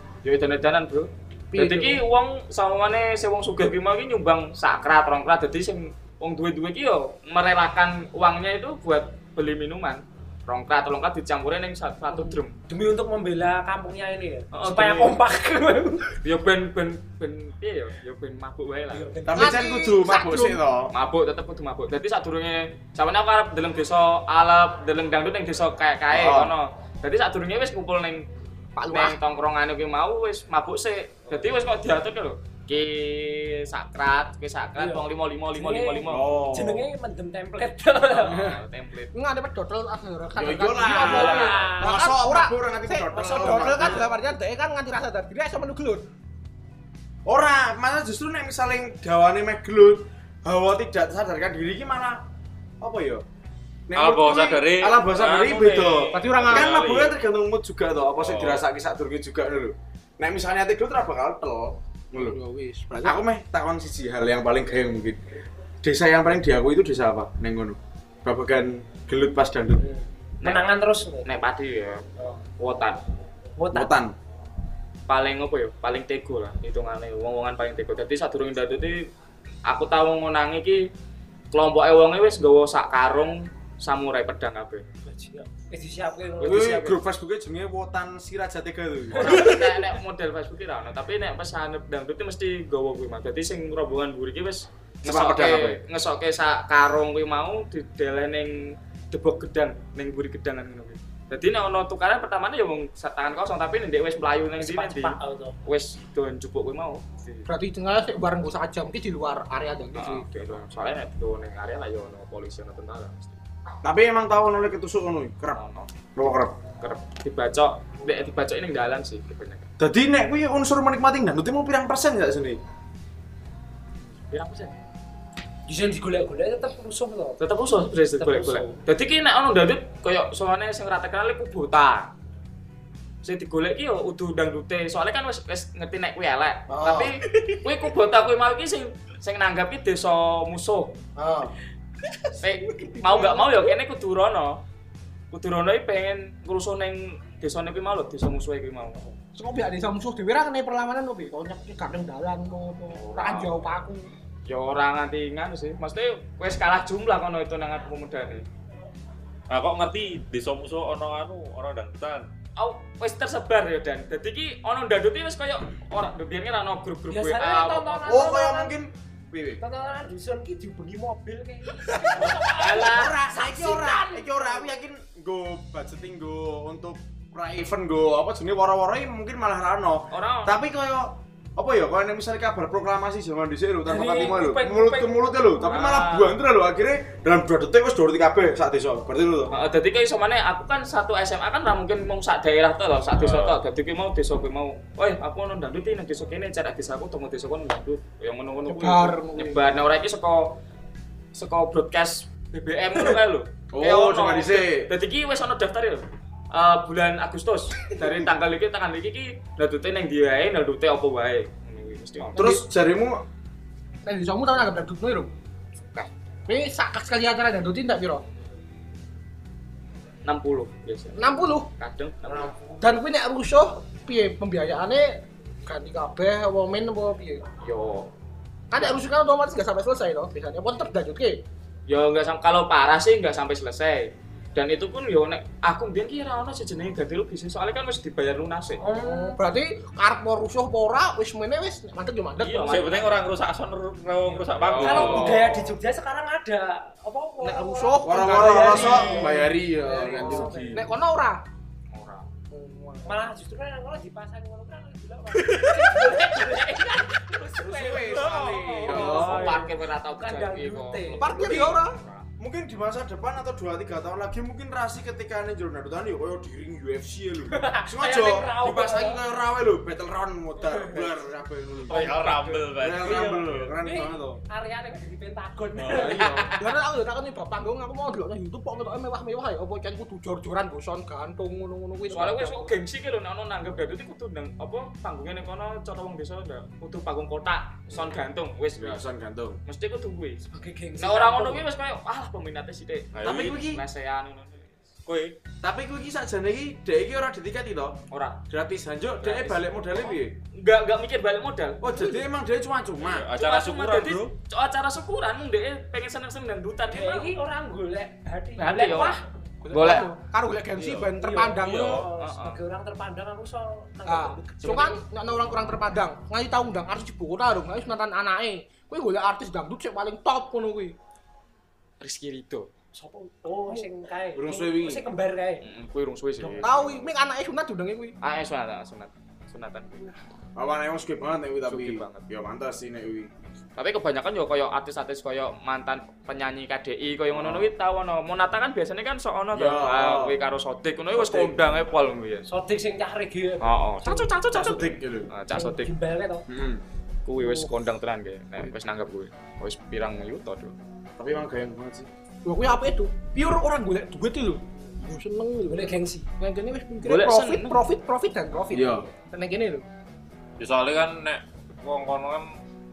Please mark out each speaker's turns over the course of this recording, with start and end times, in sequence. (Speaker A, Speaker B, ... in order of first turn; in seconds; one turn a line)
Speaker A: 0.2-12.5
Speaker B: 1.5-2.0
Speaker C: 12.1-16.2
Speaker A: 14.5-15.2
Speaker A: 16.2-19.1
Speaker C: 18.9-19.8
Speaker D: 19.3-20.9
Speaker B: 19.4-20.6
Speaker A: 20.9-28.2
Speaker D: 26.1-26.5
Speaker B: 28.8-29.2
Speaker A: 28.9-36.3
Speaker C: 34.8-38.5
Speaker D: 36.1-36.9
Speaker A: 38.1-39.1
Speaker B: 38.3-38.6
Speaker B: 39.1-46.0
Speaker D: 40.4-44.1
Speaker C: 40.9-42.0
Speaker A: 41.1-41.4
Speaker C: 43.1-44.2
Speaker D: 47.3-52.2
Speaker D: 52.8-53.2
Speaker D: 53.9-62.4
Speaker E: 54.0-57.1
Speaker A: 55.3-56.7
Speaker B: 56.1-56.8
Speaker E: 58.2-58.6
Speaker B: 62.1-63.2
Speaker D: 63.0-65.2
Speaker D: 65.8-69.8
Speaker C: 69.8-71.3
Speaker A: 71.2-72.0
Speaker A: 72.6-73.0
Speaker C: 73.6-73.9
Speaker D: 73.7-74.1
Speaker A: 75.1-79.0
Speaker A: 79.7-80.9
Speaker A: 81.5-84.8
Speaker C: 85.0-86.7
Speaker A: 86.4-87.0
Speaker D: 86.4-89.6
Speaker A: 89.2-107.5
Speaker C: 89.2-89.8
Speaker D: 95.0-95.8
Speaker C: 104.6-105.6
Speaker B: 107.5-110.2
Speaker A: 110.0-113.4
Speaker D: 113.8-115.6
Speaker A: 115.5-115.9
Speaker D: 116.2-116.5
Speaker A: 116.8-119.7
Speaker D: 119.8-122.6
Speaker A: 124.3-124.7
Speaker C: 125.7-127.4
Speaker A: 127.4-132.1
Speaker C: 128.2-128.8
Speaker A: 133.2-140.9
Speaker D: 136.7-137.1
Speaker D: 141.2-141.5
Speaker B: 142.2-143.8
Speaker A: 142.4-144.6
Speaker A: 145.3-149.0
Speaker B: 149.3-154.1
Speaker A: 152.9-153.5
Speaker A: 154.5-158.4
Speaker E: 159.5-162.3
Speaker A: 162.6-168.3
Speaker C: 167.1-168.8
Speaker D: 168.0-169.6
Speaker C: 169.6-174.7
Speaker A: 172.6-173.2
Speaker D: 172.7-189.5
Speaker A: 180.1-180.5
Speaker C: 183.9-185.3
Speaker A: 185.6-186.3
Speaker A: 189.5-200.5
Speaker E: 193.2-193.6
Speaker B: 198.7-199.7
Speaker A: 201.3-212.5
Speaker D: 203.7-204.9
Speaker B: 212.3-212.6
Speaker D: 212.4-213.2
Speaker B: 214.1-215.3
Speaker B: 216.5-218.2
Speaker A: 220.2-222.6
Speaker B: 221.2-221.7
Speaker B: 222.8-227.4
Speaker A: 227.6-228.1
Speaker B: 228.7-231.4
Speaker A: 231.9-238.8
Speaker C: 238.8-239.4
Speaker B: 238.9-242.9
Speaker A: 242.4-243.3
Speaker E: 242.7-245.6
Speaker C: 244.3-250.9
Speaker D: 244.7-245.5
Speaker A: 244.8-245.4
Speaker B: 247.4-249.4
Speaker D: 248.0-250.8
Speaker B: 250.3-251.4
Speaker A: 251.9-252.3
Speaker B: 252.5-253.3
Speaker C: 253.1-261.5
Speaker D: 257.6-259.6
Speaker B: 257.9-258.6
Speaker A: 258.9-262.3
Speaker B: 261.2-262.0
Speaker D: 261.4-261.8
Speaker D: 262.4-272.1
Speaker C: 267.5-269.2
Speaker C: 270.6-271.2
Speaker A: 271.9-272.7
Speaker E: 271.9-273.7
Speaker D: 272.8-274.4
Speaker C: 273.0-276.3
Speaker D: 275.8-276.5
Speaker A: 275.9-276.7
Speaker B: 276.6-282.8
Speaker A: 282.1-289.1
Speaker D: 288.8-289.6
Speaker A: 289.7-290.5
Speaker C: 290.5-291.7
Speaker A: 291.0-294.8
Speaker E: 293.1-293.6
Speaker D: 293.2-293.8
Speaker E: 295.1-295.4
Speaker D: 295.6-298.0
Speaker A: 298.1-298.4
Speaker D: 298.5-300.3
Speaker A: 299.2-301.9
Speaker D: 301.8-303.3
Speaker B: 301.9-302.2
Speaker E: 303.0-304.3
Speaker A: 303.4-307.3
Speaker C: 306.9-309.2
Speaker A: 308.6-309.2
Speaker B: 309.6-312.1
Speaker A: 309.7-310.1
Speaker E: 310.8-312.1
Speaker C: 311.2-315.9
Speaker A: 311.9-312.6
Speaker B: 314.1-320.9
Speaker A: 314.6-314.9
Speaker A: 322.0-322.7
Speaker C: 322.9-325.7
Speaker D: 324.4-325.0
Speaker A: 325.6-327.1
Speaker B: 326.6-328.1
Speaker A: 328.2-330.1
Speaker D: 330.6-333.3
Speaker A: 331.7-332.2
Speaker A: 333.8-342.5
Speaker D: 337.3-337.7
Speaker D: 339.5-340.4
Speaker D: 341.1-341.6
Speaker C: 342.5-344.2
Speaker A: 343.6-345.9
Speaker D: 344.5-345.3
Speaker C: 345.5-346.5
Speaker D: 346.5-346.8
Speaker A: 347.2-350.8
Speaker C: 347.4-347.7
Speaker D: 351.2-352.1
Speaker B: 352.4-359.9
Speaker C: 355.7-356.3
Speaker A: 357.0-357.8
Speaker D: 358.7-359.1
Speaker E: 360.6-362.5